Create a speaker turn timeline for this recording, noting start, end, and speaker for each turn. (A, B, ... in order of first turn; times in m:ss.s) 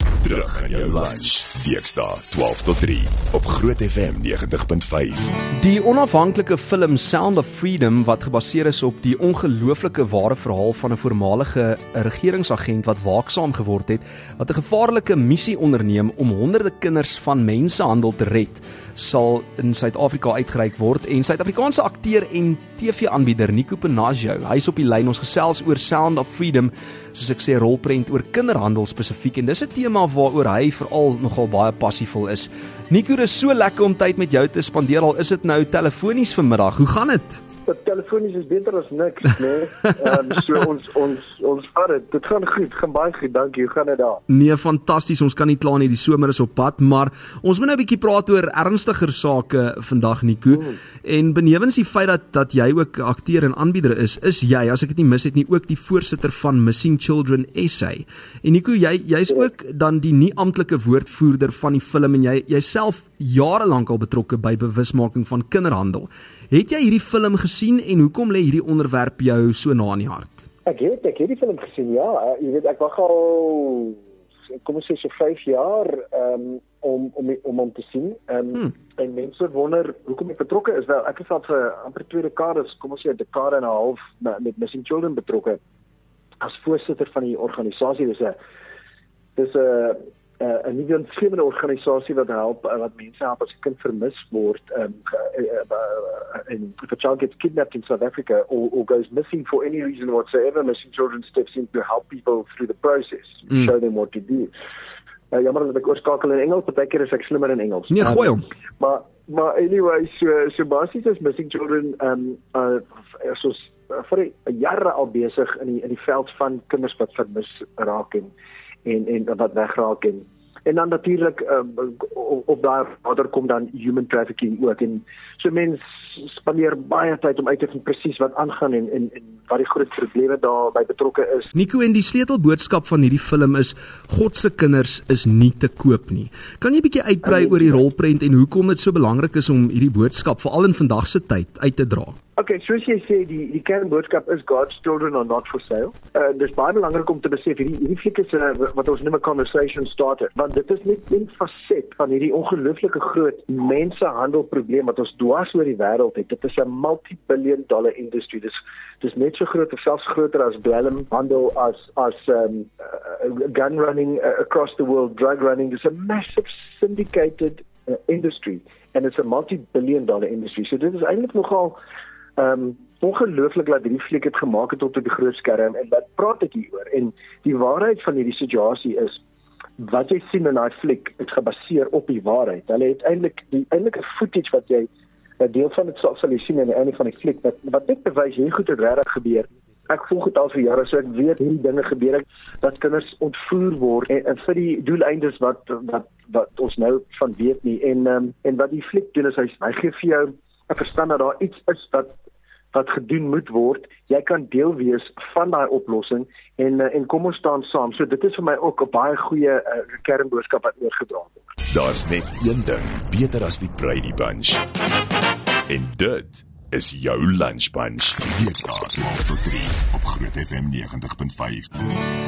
0:00.2-0:05.4 A
0:05.5-0:37.4 B
0:37.7-0:44.2 C
0:44.3-1:10.5 B
1:10.6-1:25.6 C
1:26.4-1:28.4 C
1:29.4-1:44.5 C
1:45.3-1:58.3 C
1:47.9-1:48.4 B
1:58.8-2:11.5 C
2:11.5-2:22.2 B
2:17.2-2:17.8 C
2:22.4-2:51.8 C
2:52.4-2:59.2 C
2:59.8-3:04.9 C
3:05.4-3:22.1 C
3:22.7-3:31.4 C
3:31.7-3:34.6 A
3:35.7-3:41.8 A